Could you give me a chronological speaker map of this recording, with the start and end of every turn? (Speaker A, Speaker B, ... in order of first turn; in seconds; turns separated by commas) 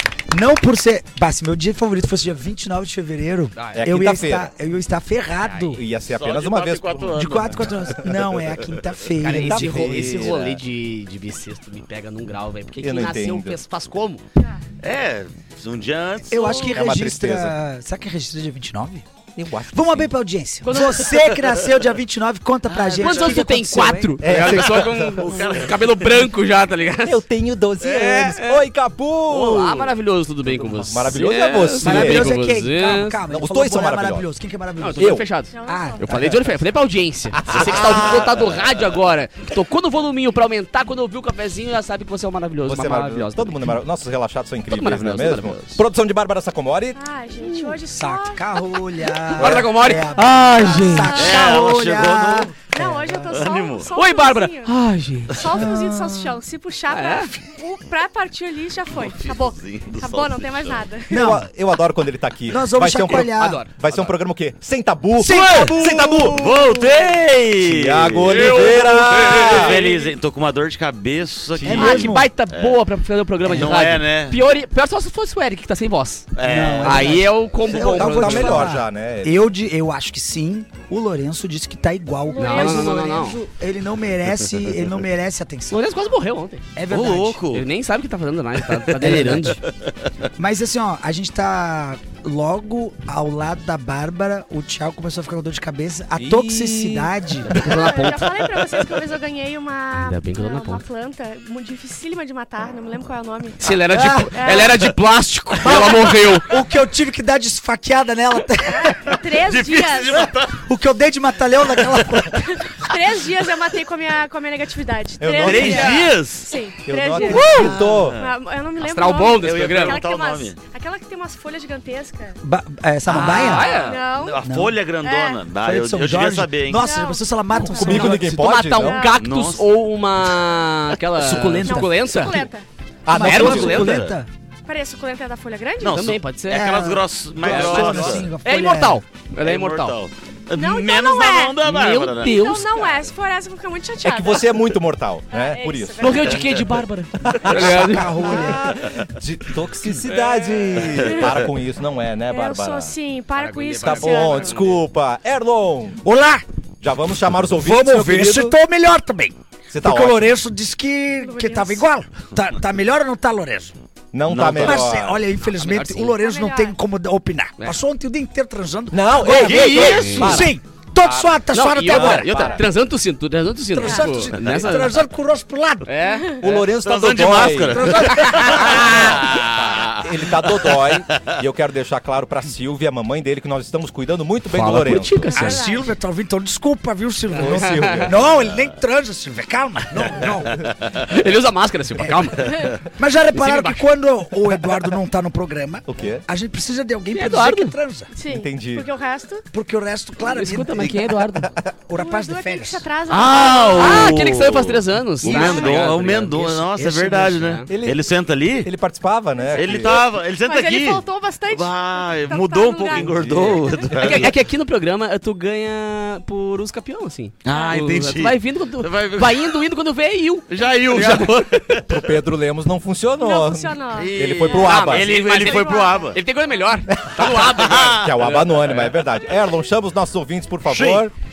Speaker A: 0.3-5.8, Speaker B: 3.5-3.8, Speaker C: 3.7-4.5, Speaker C: 5.5-7.8, Speaker D: 6.1-8.5, Speaker A: 7.1-10.4, Speaker C: 9.2-10.6, Speaker B: 9.2-14.2, Speaker C: 12.8-13.6, Speaker D: 14.8-16.8, Speaker A: 16.3-19.0, Speaker C: 16.5-17.6, Speaker C: 19.4-20.1, Speaker A: 19.7-24.2, Speaker E: 20.6-21.3, Speaker D: 21.1-21.5, Speaker D: 22.6-23.5, Speaker B: 23.0-27.2, Speaker C: 24.2-25.5, Speaker D: 25.1-25.9, Speaker C: 27.0-32.4, Speaker B: 27.8-28.6, Speaker B: 29.3-33.2, Speaker A: 31.8-36.4, Speaker C: 33.3-34.3, Speaker B: 34.8-43.8, Speaker C: 35.0-35.2, Speaker E: 35.5-36.0, Speaker C: 37.3-38.5, Speaker C: 42.6-47.0, Speaker B: 44.7-45.8, Speaker E: 47.0-51.6, Speaker B: 47.4-47.8, Speaker A: 47.9-53.4, Speaker B: 49.4-51.2, Speaker D: 51.1-52.5, Speaker E: 52.6-61.2, Speaker D: 53.3-53.9, Speaker B: 53.9-55.4, Speaker A: 55.5-56.3, Speaker B: 56.9-57.3, Speaker D: 58.9-60.9, Speaker A: 61.1-61.5, Speaker C: 61.1-66.5, Speaker A: 62.5-63.6, Speaker B: 63.1-64.1, Speaker A: 65.2-66.5, Speaker D: 65.2-72.8, Speaker E: 66.5-67.0, Speaker C: 67.6-69.8, Speaker B: 68.3-69.6, Speaker C: 71.5-72.3, Speaker A: 71.7-72.3, Speaker B: 71.8-78.7, Speaker D: 73.4-74.4, Speaker D: 76.3-77.2, Speaker A: 76.4-85.8, Speaker C: 77.8-79.4, Speaker E: 82.3-83.1, Speaker B: 82.3-83.4, Speaker B: 85.7-86.6, Speaker A: 86.8-87.4, Speaker D: 86.9-87.7, Speaker B: 87.5-89.6, Speaker A: 88.9-89.6, Speaker A: 90.4-97.8, Speaker C: 96.1-97.1, Speaker B: 97.4-98.3, Speaker E: 97.7-104.8, Speaker D: 98.3-98.9, Speaker B: 99.9-100.8, Speaker B: 103.6-106.5, Speaker A: 103.9-104.6, Speaker A: 105.6-109.2, Speaker E: 108.7-110.3, Speaker D: 109.3-110.6, Speaker A: 110.1-112.8, Speaker E: 112.3-122.4, Speaker C: 115.2-116.0, Speaker D: 115.4-116.6, Speaker C: 116.8-118.2, Speaker B: 117.2-117.7, Speaker D: 117.4-118.3, Speaker B: 118.8-120.0, Speaker D: 119.4-120.6, Speaker A: 122.4-123.8, Speaker B: 123.1-124.0, Speaker E: 123.3-124.5, Speaker D: 123.5-126.9, Speaker A: 124.4-124.8, Speaker E: 125.0-125.4, Speaker A: 125.5-128.2, Speaker E: 126.8-128.2, Speaker C: 127.6-129.0, Speaker B: 127.8-132.5, Speaker E: 128.7-129.2, Speaker D: 129.2-129.7, Speaker A: 131.2-132.4, Speaker E: 131.6-132.6, Speaker C: 133.1-133.9, Speaker A: 133.1-134.3, Speaker B: 133.1-134.1, Speaker D: 133.3-134.2, Speaker E: 134.7-136.1, Speaker D: 135.8-138.3, Speaker B: 135.9-136.8, Speaker A: 136.5-139.0, Speaker B: 137.4-140.0, Speaker D: 139.4-142.9, Speaker E: 140.5-141.6, Speaker B: 141.6-142.9, Speaker E: 142.2-144.6, Speaker C: 144.0-146.3, Speaker E: 145.3-146.6, Speaker B: 146.0-148.4, Speaker C: 147.2-152.9, Speaker A: 147.4-148.7, Speaker B: 149.9-150.9, Speaker E: 151.0-151.4, Speaker E: 152.3-154.6, Speaker B: 153.3-154.8, Speaker C: 153.8-156.0, Speaker A: 156.0-156.4, Speaker C: 156.8-158.6, Speaker A: 157.5-163.8, Speaker C: 159.7-160.4, Speaker E: 161.2-161.8, Speaker C: 164.1-165.2, Speaker D: 164.3-164.9, Speaker A: 164.6-172.6, Speaker B: 165.5-166.2, Speaker E: 166.2-166.8, Speaker C: 168.9-172.6, Speaker D: 169.2-170.4, Speaker B: 169.8-170.4, Speaker B: 171.5-175.0, Speaker A: 173.7-175.9, Speaker E: 173.8-174.2, Speaker D: 174.5-174.8, Speaker B: 175.8-176.6, Speaker C: 176.4-185.3, Speaker D: 176.8-181.4, Speaker A: 177.7-179.3, Speaker B: 184.5-185.7, Speaker E: 185.2-185.9, Speaker A: 185.3-190.8, Speaker B: 187.3-188.1, Speaker C: 187.4-188.3, Speaker C: 190.1-190.5, Speaker B: 190.9-192.8, Speaker A: 192.0-198.1, Speaker E: 192.4-192.8, Speaker B: 193.3-193.9, Speaker C: 195.9-196.2, Speaker B: 197.1-197.8, Speaker E: 198.1-199.4, Speaker C: 198.3-198.9, Speaker A: 199.5-201.0, Speaker B: 200.2-201.5, Speaker C: 200.8-201.7, Speaker A: 201.9-202.8, Speaker E: 202.0-204.2, Speaker D: 203.1-208.7, Speaker B: 203.8-206.6, Speaker E: 205.2-205.9, Speaker A: 206.3-207.5, Speaker B: 207.3-207.7, Speaker C: 207.7-208.0, Speaker C: 208.6-210.0, Speaker D: 209.5-214.3, Speaker E: 210.4-213.9, Speaker C: 212.9-214.3, Speaker B: 213.9-221.6, Speaker D: 217.4-219.6, Speaker D: 220.5-222.1, Speaker C: 221.9-225.1, Speaker E: 223.2-226.2, Speaker D: 223.9-226.2, Speaker B: 224.6-229.0, Speaker C: 226.9-231.1, Speaker D: 227.3-228.2, Speaker D: 230.7-231.1